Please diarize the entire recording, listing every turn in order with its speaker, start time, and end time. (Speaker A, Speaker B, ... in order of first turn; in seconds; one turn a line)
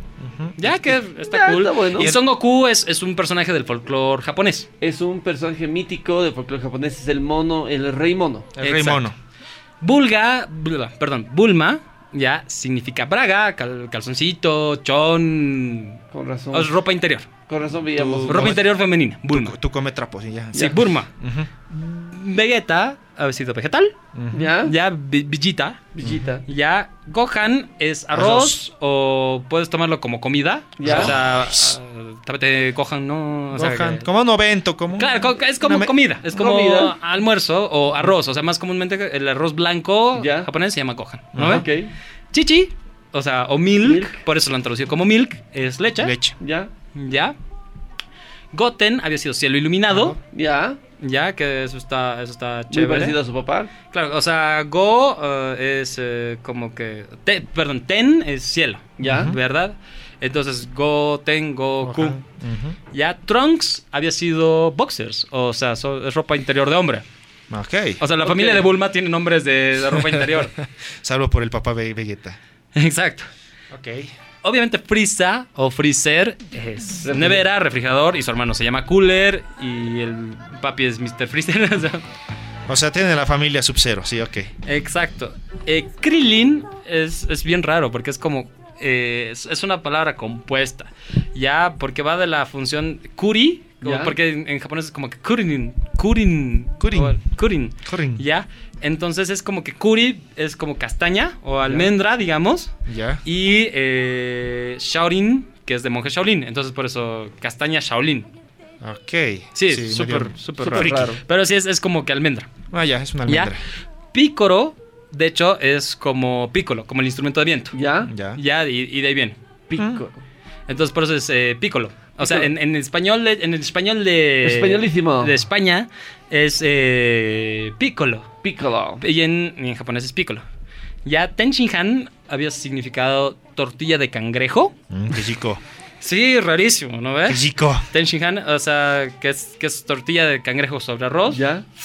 Speaker A: 0.2-0.8
Speaker B: 0.6-4.7
Speaker C: 1.3-2.1
Speaker C: 4.8-8.5
Speaker A: 8.6-9.2
Speaker B: 8.6-9.1
Speaker B: 9.8-16.0
Speaker C: 16.1-16.7
Speaker B: 16.5-17.3
Speaker C: 17.5-18.6
Speaker A: 18.0-18.6
Speaker B: 18.3-19.6
Speaker A: 19.3-21.5
Speaker B: 20.5-21.1
Speaker B: 21.7-23.9
Speaker A: 24.1-24.5
Speaker C: 24.3-24.8
Speaker B: 24.6-25.9
Speaker C: 25.9-26.4
Speaker A: 26.0-26.4
Speaker B: 26.5-34.1
Speaker A: 28.1-28.6
Speaker C: 30.8-31.1
Speaker A: 30.8-31.8
Speaker A: 33.5-35.9
Speaker B: 35.0-41.6
Speaker C: 36.3-37.0
Speaker C: 40.1-40.5
Speaker A: 41.4-41.6
Speaker C: 41.4-41.9
Speaker B: 42.3-46.1
Speaker C: 43.8-44.2
Speaker A: 46.0-46.4
Speaker C: 46.4-46.7
Speaker B: 47.0-47.4
Speaker B: 48.5-50.2
Speaker C: 50.2-50.8
Speaker B: 51.0-53.2
Speaker C: 52.7-53.7
Speaker B: 53.9-62.2
Speaker C: 59.0-59.3
Speaker A: 59.1-59.4
Speaker A: 61.8-62.8
Speaker B: 62.9-67.0
Speaker A: 67.5-68.0
Speaker B: 68.0-70.5
Speaker C: 68.2-68.6
Speaker A: 71.0-72.4
Speaker B: 72.8-73.3
Speaker A: 73.7-74.1
Speaker B: 74.4-82.0
Speaker C: 77.1-77.4
Speaker A: 82.7-84.5
Speaker B: 84.7-102.7
Speaker C: 93.8-94.1
Speaker A: 96.8-97.2
Speaker A: 97.8-98.2
Speaker A: 102.9-103.2
Speaker B: 103.2-108.3
Speaker A: 108.8-111.1
Speaker B: 109.6-112.5
Speaker C: 110.6-111.2
Speaker A: 112.7-113.6
Speaker B: 113.3-113.5
Speaker B: 114.1-117.8
Speaker C: 117.7-118.1
Speaker A: 118.1-118.4
Speaker B: 118.3-119.4
Speaker C: 119.7-120.2
Speaker A: 119.8-120.0
Speaker B: 120.7-128.3
Speaker C: 122.2-122.5
Speaker C: 124.4-125.3
Speaker C: 128.4-129.0
Speaker B: 129.0-130.4
Speaker B: 131.1-134.7
Speaker A: 134.9-135.6
Speaker B: 136.0-141.4
Speaker A: 137.3-137.9
Speaker C: 141.3-141.7